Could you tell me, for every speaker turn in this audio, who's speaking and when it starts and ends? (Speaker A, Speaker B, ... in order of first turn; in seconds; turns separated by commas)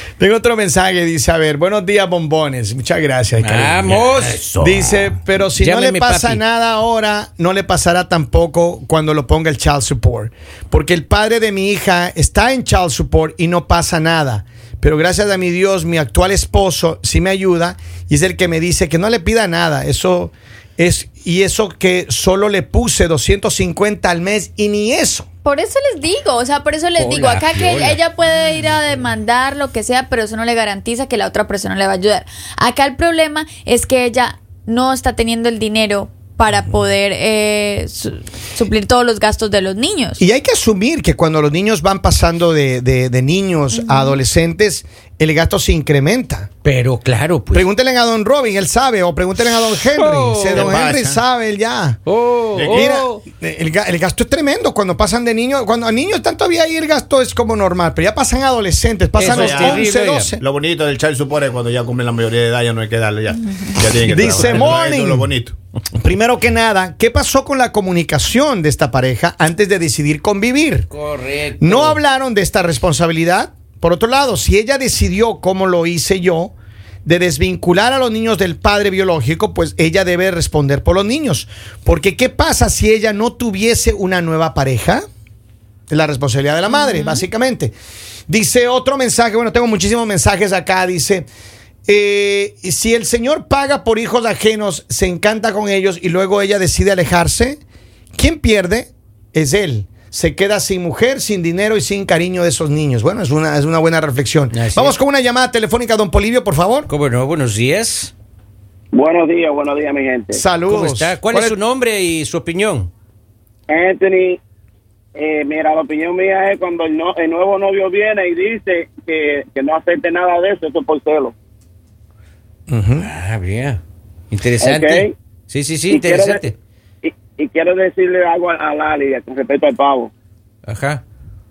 Speaker A: 0.2-3.9, Speaker B: 3.4-4.4, Speaker C: 3.9-5.1, Speaker A: 4.6-25.3, Speaker B: 5.6-6.4, Speaker D: 25.4-40.2, Speaker B: 27.0-28.0, Speaker A: 40.2-46.5, Speaker D: 43.7-44.2, Speaker B: 46.6-47.7, Speaker A: 47.5-52.0, Speaker B: 49.9-50.8, Speaker C: 50.5-51.2, Speaker B: 52.1-53.2, Speaker C: 52.5-53.0, Speaker A: 52.7-60.4, Speaker B: 59.2-60.4, Speaker C: 59.2-59.9, Speaker C: 60.4-65.5, Speaker A: 63.9-65.3, Speaker A: 66.0-70.9, Speaker B: 70.9-72.0, Speaker A: 71.6-76.5, Speaker A: 77.0-85.0, Speaker A: 85.9-87.8, Speaker D: 86.7-87.2, Speaker A: 88.3-91.3, Speaker A: 91.9-97.6, Speaker A: 98.2-106.9, Speaker B: 104.5-104.9, Speaker B: 106.9-108.1, Speaker E: 108.9-110.4, Speaker A: 110.3-111.6, Speaker B: 110.7-112.9, Speaker E: 113.7-114.4, Speaker E: 115.2-121.3, Speaker A: 122.7-123.1, Speaker B: 123.0-123.8, Speaker B: 124.3-126.6, Speaker E: 124.6-125.1, Speaker E: 125.9-126.5, Speaker E: 127.0-130.1, Speaker B: 130.7-131.0